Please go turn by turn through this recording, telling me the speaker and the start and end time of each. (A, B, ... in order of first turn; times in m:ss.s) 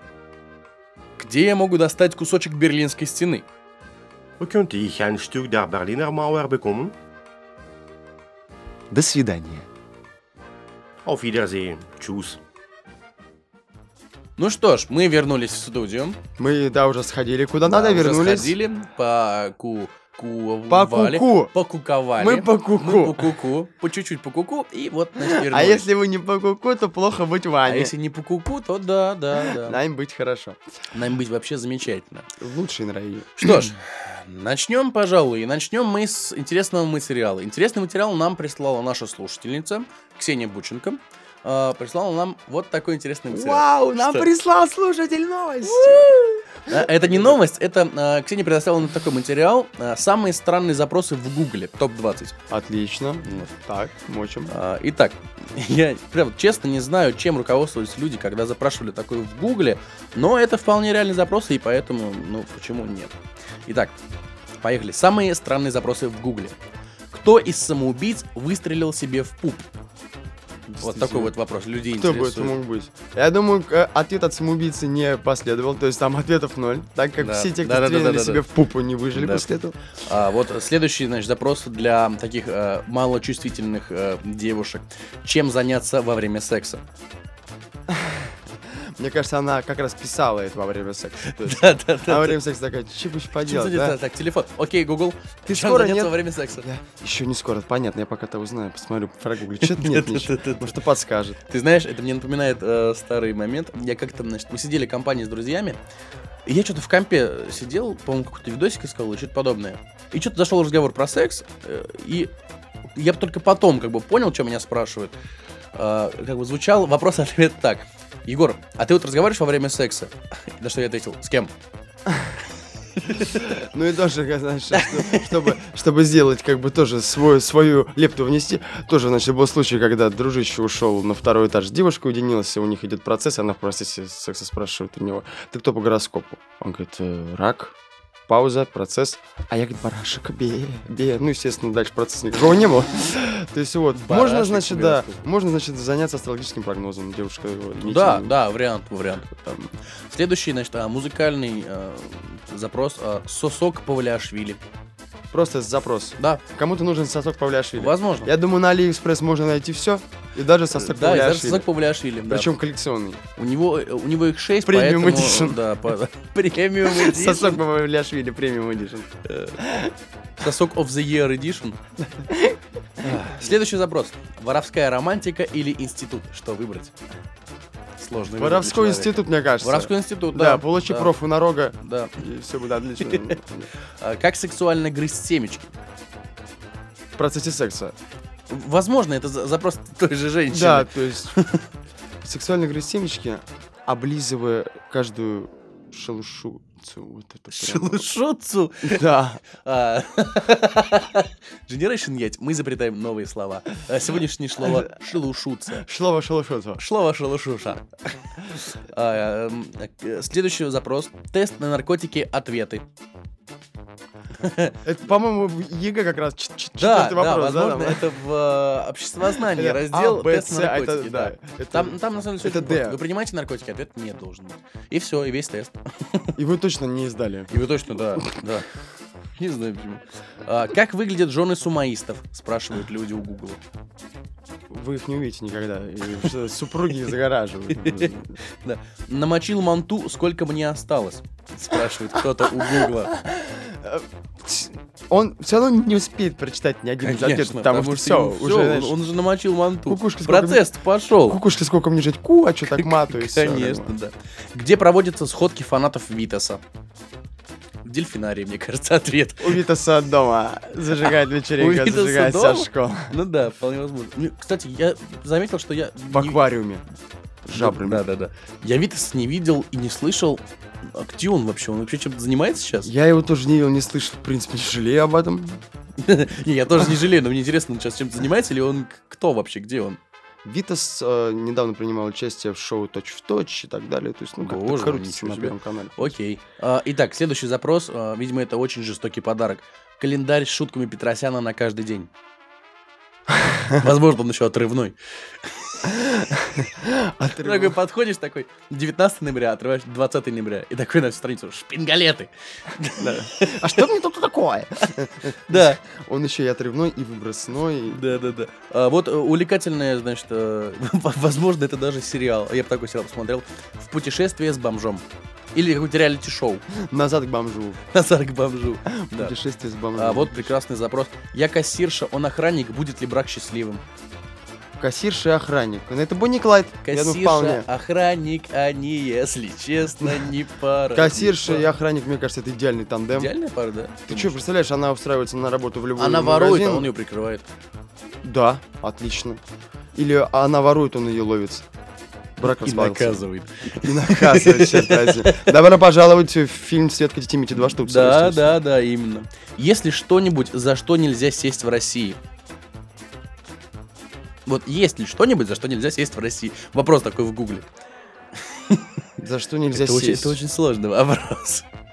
0:01.2-0:03.4 A
0:04.4-0:06.9 B
0:08.9-0:09.7 C
0:11.0-0:12.4 B
0:14.4-0:16.2 A
0:16.4-0:18.5 C
0:17.6-0:25.8 A
0:20.7-0:21.5 C
0:22.2-0:23.3 C
0:25.2-0:27.9 C
0:27.6-0:29.8 A
0:29.3-0:30.6 C
0:30.9-0:32.3 A
0:32.4-0:33.7 C
0:33.4-0:44.3 A
0:43.3-0:47.4 C
0:45.6-0:46.1 A
0:46.7-0:52.3 A
0:52.5-0:54.5 C
0:54.5-1:03.1 A
1:03.6-1:04.0 A
1:04.6-1:06.6 A
1:07.1-1:09.7 A
1:10.7-1:11.4 C
1:10.8-1:12.6 A
1:11.9-1:19.8 C
1:17.2-1:18.4 A
1:19.1-1:19.5 A
1:20.0-1:26.8 A
1:27.9-1:34.0 C
1:31.3-1:32.4 A
1:33.4-1:36.6 A
1:35.4-1:41.4 C
1:39.6-1:40.7 A
1:41.5-1:45.8 A
1:46.4-1:52.3 A
1:52.9-1:55.1 A
1:55.7-2:01.5 A
2:02.1-2:02.3 C
2:03.0-2:03.3 A
2:03.2-2:17.7 C
2:04.8-2:05.3 A
2:18.3-2:28.4 C
2:23.9-2:25.2 A
2:27.8-2:29.3 A
2:29.2-2:29.7 C
2:30.1-2:34.6 A
2:35.3-2:41.7 C
2:37.8-2:38.3 A
2:40.7-2:42.5 A
2:42.3-2:43.2 C
2:43.4-2:47.6 A
2:44.6-2:45.6 C
2:46.8-2:49.9 C
2:49.2-2:49.6 A
2:50.4-2:51.8 A
2:52.2-2:53.3 C
2:53.0-2:56.9 A
2:58.0-3:01.1 A
2:58.4-3:03.7 C
3:01.8-3:02.1 A
3:04.0-3:05.7 A
3:07.2-3:08.0 C
3:08.5-3:11.6 A
3:10.5-3:11.3 C
3:12.2-3:18.0 C
3:17.5-3:19.0 A
3:18.8-3:19.4 C
3:19.6-3:25.8 A
3:24.6-3:24.9 C
3:25.7-3:26.8 C
3:26.8-3:27.8 A
3:28.4-3:32.8 A
3:34.4-3:34.8 A
3:34.8-3:38.1 C
3:36.8-3:46.3 A
3:39.4-3:43.0 C
3:46.4-3:47.6 C
3:47.5-3:48.7 A
3:49.4-3:53.6 A
3:54.7-3:58.4 C
3:57.7-3:58.1 A
3:58.6-4:03.2 A
4:02.4-4:09.0 C
4:07.0-4:11.4 A
4:09.8-4:10.6 C
4:11.2-4:13.9 C
4:12.8-4:16.6 A
4:17.8-4:19.6 A
4:19.4-4:23.1 C
4:21.6-4:26.4 A
4:26.1-4:26.8 C
4:27.4-4:28.0 C
4:27.5-4:32.9 A
4:32.8-4:35.6 C
4:36.0-4:40.0 A
4:40.4-4:46.1 C
4:44.4-4:52.1 A
4:53.3-4:53.8 C
4:53.8-4:55.9 A
4:55.8-4:57.8 C
4:57.4-5:03.8 A
5:03.0-5:08.0 C
5:05.5-5:05.8 A
5:07.9-5:16.6 A
5:16.7-5:17.8 C
5:17.9-5:19.4 A
5:19.1-5:20.5 C
5:19.9-5:23.8 A
5:24.8-5:27.6 C
5:26.8-5:31.7 A
5:30.0-5:30.3 C
5:30.9-5:33.3 C
5:33.1-5:34.4 A
5:34.1-5:36.9 C
5:36.0-5:37.4 A
5:38.2-5:39.4 C
5:39.9-5:41.6 C
5:42.4-5:43.2 C
5:42.4-5:45.6 A
5:43.7-5:48.6 C
5:47.8-5:52.2 A
5:54.4-5:57.7 A
5:58.5-5:58.8 A
5:59.2-6:00.4 C
5:59.7-6:01.6 A